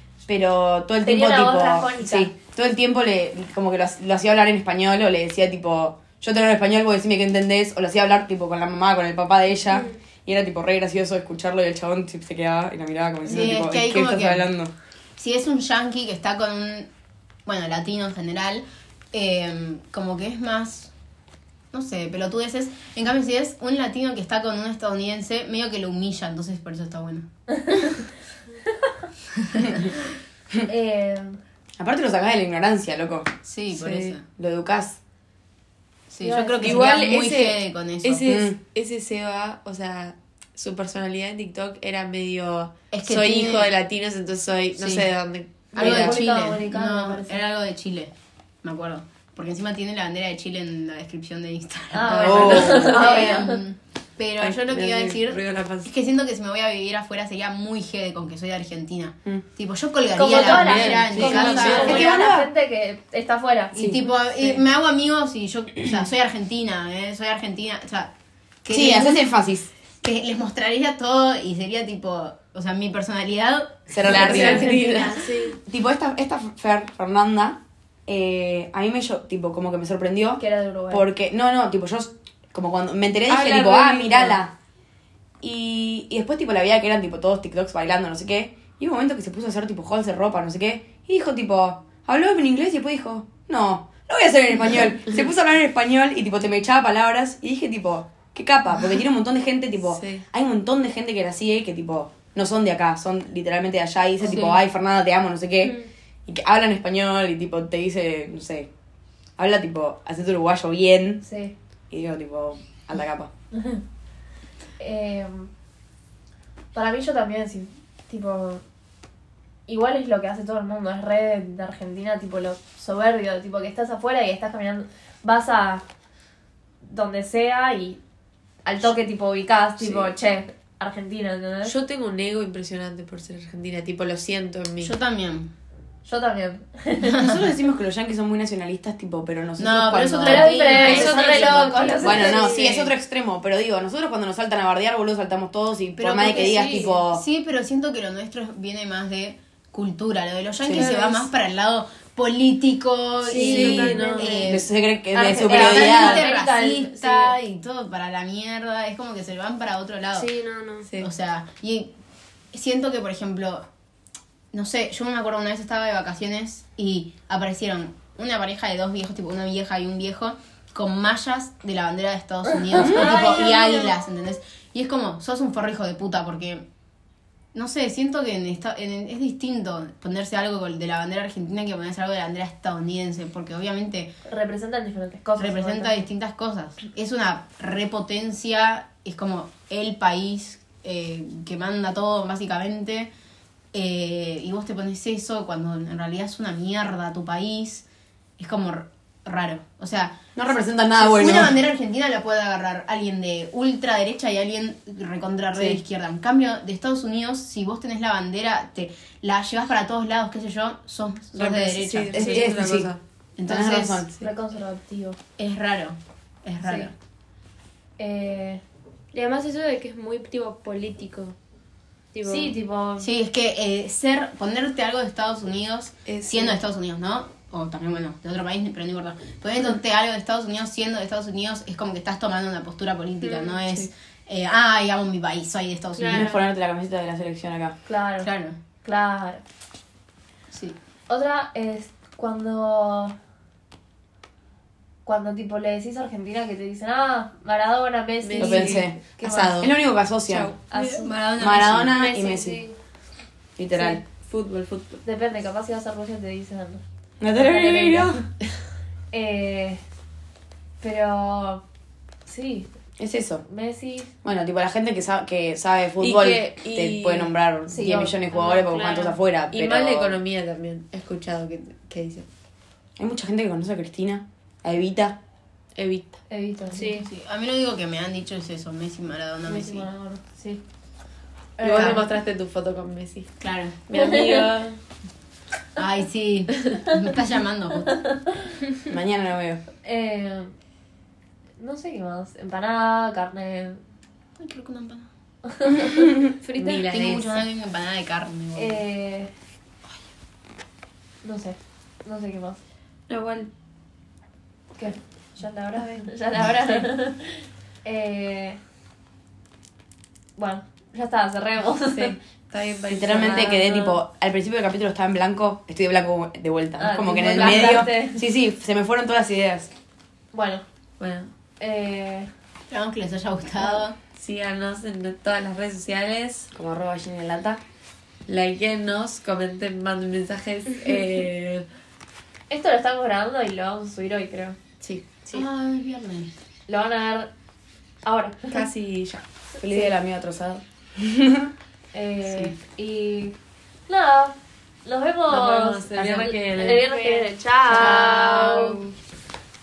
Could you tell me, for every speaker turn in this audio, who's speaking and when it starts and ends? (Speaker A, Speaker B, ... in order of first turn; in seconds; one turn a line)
Speaker A: 0.3-14.7
Speaker B: 1.0-2.3
Speaker C: 13.2-14.5
Speaker C: 15.2-16.9
Speaker C: 17.5-20.9
Speaker C: 21.7-27.3
Speaker B: 27.5-28.0
Speaker C: 29.4-30.0
Speaker B: 30.7-31.4
Speaker A: 31.8-33.3
Speaker C: 33.4-34.2
Speaker D: 33.7-34.2
Speaker A: 34.3-35.0
Speaker C: 36.1-38.3
Speaker B: 36.2-37.0
Speaker D: 36.6-46.2
Speaker A: 38.3-38.6
Speaker C: 42.9-43.7
Speaker C: 44.8-45.1
Speaker B: 45.7-47.4
Speaker C: 45.8-62.2
Speaker B: 51.9-53.6
Speaker D: 52.1-53.2
Speaker A: 52.2-53.4
Speaker D: 54.4-55.9
Speaker B: 60.1-63.8
Speaker D: 60.2-62.1
Speaker A: 61.2-62.5
Speaker C: 63.7-68.1
Speaker A: 63.8-64.0
Speaker D: 64.4-64.6
Speaker C: 68.6-69.4
Speaker A: 68.7-69.7
Speaker C: 70.0-75.3
Speaker A: 73.9-74.8
Speaker D: 74.1-75.2
Speaker B: 74.3-75.3
Speaker E: 74.4-75.6
Speaker A: 75.7-84.5
Speaker B: 80.4-81.1
Speaker D: 83.3-84.4
Speaker A: 85.4-108.7
Speaker D: 99.9-100.2
Speaker A: 109.4-111.2
Speaker B: 111.2-111.5
Speaker A: 111.9-113.3
Speaker B: 113.5-113.8
Speaker B: 114.8-115.5
Speaker B: 116.7-118.6
Speaker B: 119.7-125.8
Speaker B: 126.8-128.0
Speaker B: 128.7-131.8
Speaker D: 129.8-130.1
Speaker D: 131.7-134.9
Speaker C: 134.8-135.5
Speaker B: 136.1-137.2
Speaker C: 137.1-137.4
Speaker A: 137.1-141.1
Speaker C: 139.6-142.9
Speaker B: 140.2-142.6
Speaker D: 140.8-141.7
Speaker A: 142.0-147.2
Speaker E: 142.1-142.7
Speaker C: 146.0-160.3
Speaker E: 146.2-146.9
Speaker E: 150.7-151.3
Speaker E: 153.2-154.6
Speaker D: 153.4-154.4
Speaker A: 153.5-156.3
Speaker B: 155.2-157.4
Speaker E: 160.1-160.9
Speaker D: 160.8-161.1
Speaker C: 161.0-162.0
Speaker C: 162.5-163.7
Speaker C: 164.5-176.7
Speaker B: 172.5-173.9
Speaker A: 172.8-173.6
Speaker C: 177.5-184.2
Speaker B: 184.2-185.9
Speaker C: 185.4-193.1
Speaker C: 193.7-197.9
Speaker C: 198.4-212.5
Speaker A: 200.4-201.6
Speaker D: 211.4-213.0
Speaker A: 212.1-212.9
Speaker C: 213.4-214.1
Speaker A: 213.4-214.1
Speaker B: 214.2-215.2
Speaker C: 215.4-216.9
Speaker B: 216.6-216.9
Speaker B: 218.0-218.6
Speaker E: 219.1-221.4
Speaker E: 222.1-222.6
Speaker B: 222.2-223.1
Speaker C: 223.0-236.4
Speaker D: 226.1-226.6
Speaker E: 236.0-236.3
Speaker A: 236.1-237.8
Speaker B: 237.9-238.3
Speaker C: 238.2-238.6
Speaker B: 238.8-239.4
Speaker C: 240.5-240.8
Speaker B: 241.1-243.2
Speaker B: 245.1-249.7
Speaker D: 248.2-249.7
Speaker A: 248.4-249.0
Speaker A: 249.6-250.5
Speaker D: 250.3-250.6
Speaker B: 250.7-251.1
Speaker C: 250.8-251.9
Speaker A: 251.4-252.6
Speaker E: 251.9-252.6
Speaker A: 253.6-254.0
Speaker B: 253.7-254.0
Speaker D: 254.0-255.0
Speaker B: 255.1-256.8
Speaker A: 257.2-258.2
Speaker B: 257.4-258.3
Speaker B: 259.1-259.8
Speaker B: 260.8-261.6
Speaker B: 262.3-262.7
Speaker A: 263.0-263.4
Speaker B: 263.5-264.1
Speaker A: 264.2-270.2
Speaker D: 266.0-267.3
Speaker B: 267.7-269.2
Speaker D: 269.5-272.3
Speaker A: 273.0-275.2
Speaker D: 275.8-276.2
Speaker B: 276.3-277.1
Speaker E: 276.7-277.1
Speaker C: 276.8-279.9
Speaker B: 279.5-280.6
Speaker B: 281.6-282.0
Speaker D: 281.6-283.3
Speaker C: 281.6-282.0
Speaker C: 283.4-283.8
Speaker D: 283.9-284.8
Speaker B: 283.9-284.5
Speaker C: 285.8-287.9
Speaker B: 288.0-288.3
Speaker A: 288.9-289.6
Speaker B: 289.8-290.5
Speaker B: 291.6-293.8
Speaker C: 294.4-295.1
Speaker B: 295.5-296.7
Speaker A: 295.8-296.1
Speaker D: 296.5-297.4
Speaker E: 296.6-297.0
Speaker C: 296.9-298.8
Speaker B: 298.6-299.3
Speaker B: 301.2-302.6
Speaker D: 303.1-303.5
Speaker B: 304.8-308.6
Speaker B: 310.4-312.2
Speaker D: 311.9-313.9
Speaker A: 312.9-319.7
Speaker B: 316.8-318.2
Speaker C: 317.4-317.9
Speaker B: 320.3-320.6
Speaker D: 321.0-321.3
Speaker B: 321.6-322.3
Speaker C: 322.7-324.0
Speaker D: 324.1-326.5
Speaker A: 326.5-327.6
Speaker D: 328.3-331.7
Speaker B: 332.5-334.6
Speaker D: 334.8-335.4
Speaker C: 335.3-336.3
Speaker B: 336.7-337.3
Speaker B: 338.1-338.6
Speaker D: 338.5-339.2
Speaker B: 339.5-339.9
Speaker A: 339.6-341.5
Speaker B: 341.9-343.4
Speaker C: 342.3-342.6
Speaker B: 343.9-348.8
Speaker D: 345.3-347.1
Speaker E: 346.6-348.6
Speaker C: 347.7-348.8
Speaker D: 347.8-348.8